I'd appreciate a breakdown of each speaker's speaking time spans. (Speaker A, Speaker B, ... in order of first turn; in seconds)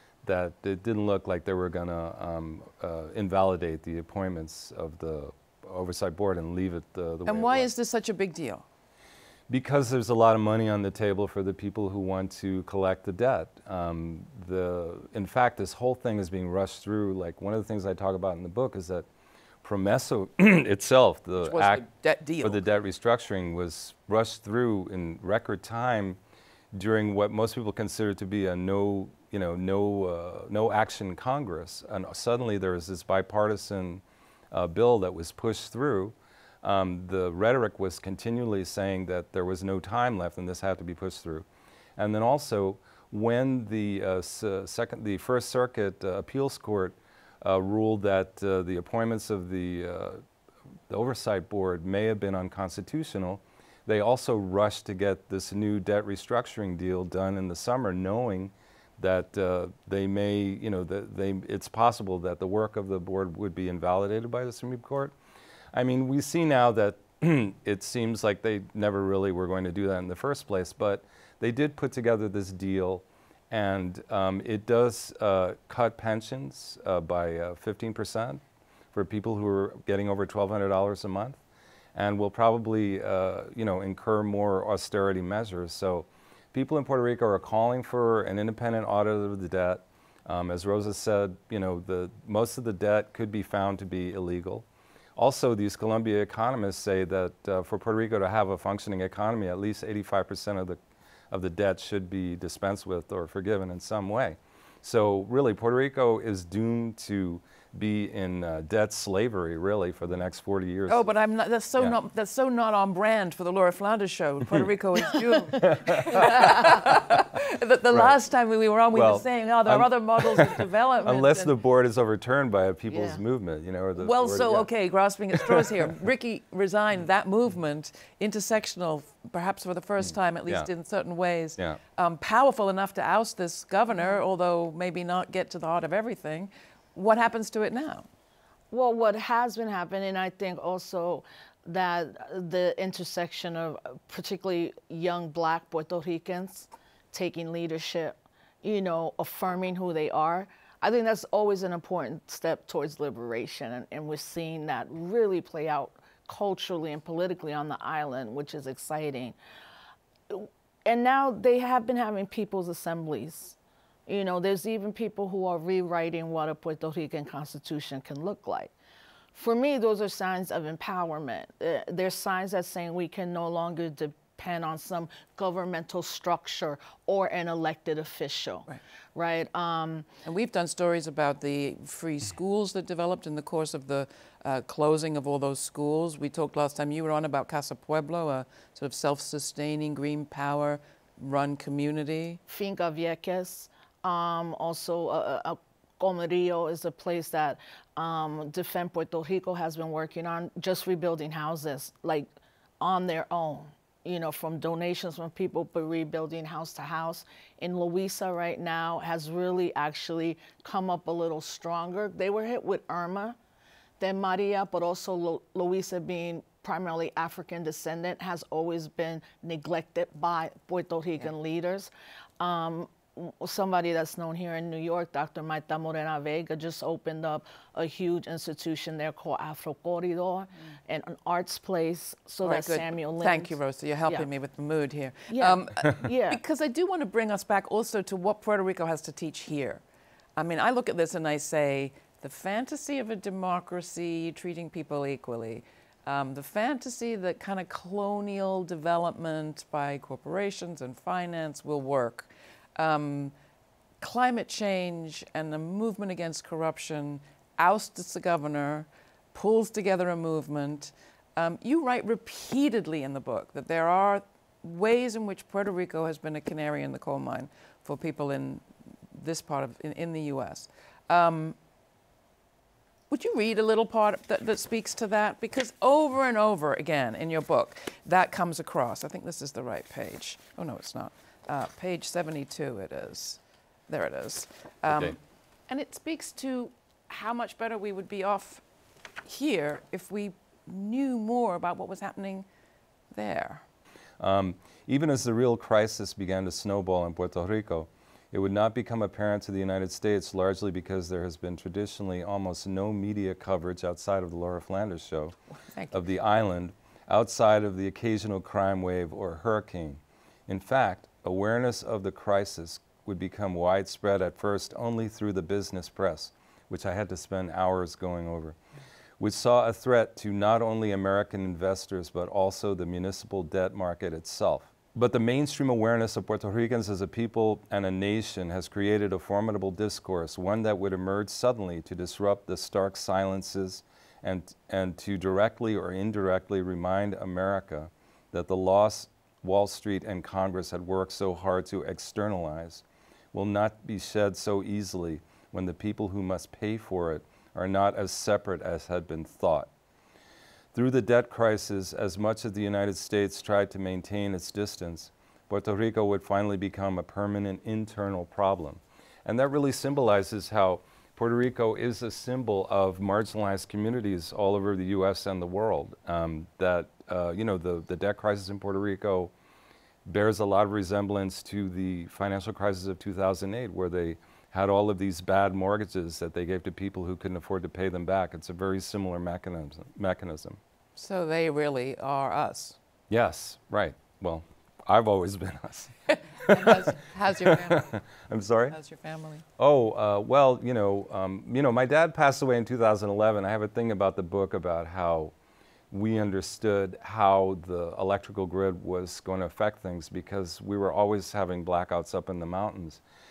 Speaker A: 0.2-7.7, 9.5-19.1, 19.6-21.8, 22.4-26.2, 26.7-41.5, 42.0-50.2, 50.9-65.1, 65.7-78.4, 78.9-81.4, 81.9-100.8, 101.3-111.1, 115.4-116.8, 117.9-118.2, 118.9-124.7, 125.3-125.9, 130.0-130.7, 284.9-285.1, 294.2-305.3, 305.9-318.6, 319.2-349.7, 350.7-369.3, 370.0-380.6, 383.1-388.8, 389.6-395.3, 395.9-403.0
Speaker B: 7.2-8.6, 21.4-22.6, 110.9-121.5, 124.0-138.1, 180.2-192.4, 232.4-239.8, 240.3-253.3, 254.0-271.6, 273.1-288.6, 289.2-292.4, 293.1-293.6, 305.7-306.0, 380.9-382.8, 386.4-387.9, 388.7-389.4
Speaker C: 122.9-123.2, 138.7-159.3, 160.3-168.7, 169.3-180.1, 192.5-202.3, 202.8-213.4, 214.0-234.3, 235.3-236.4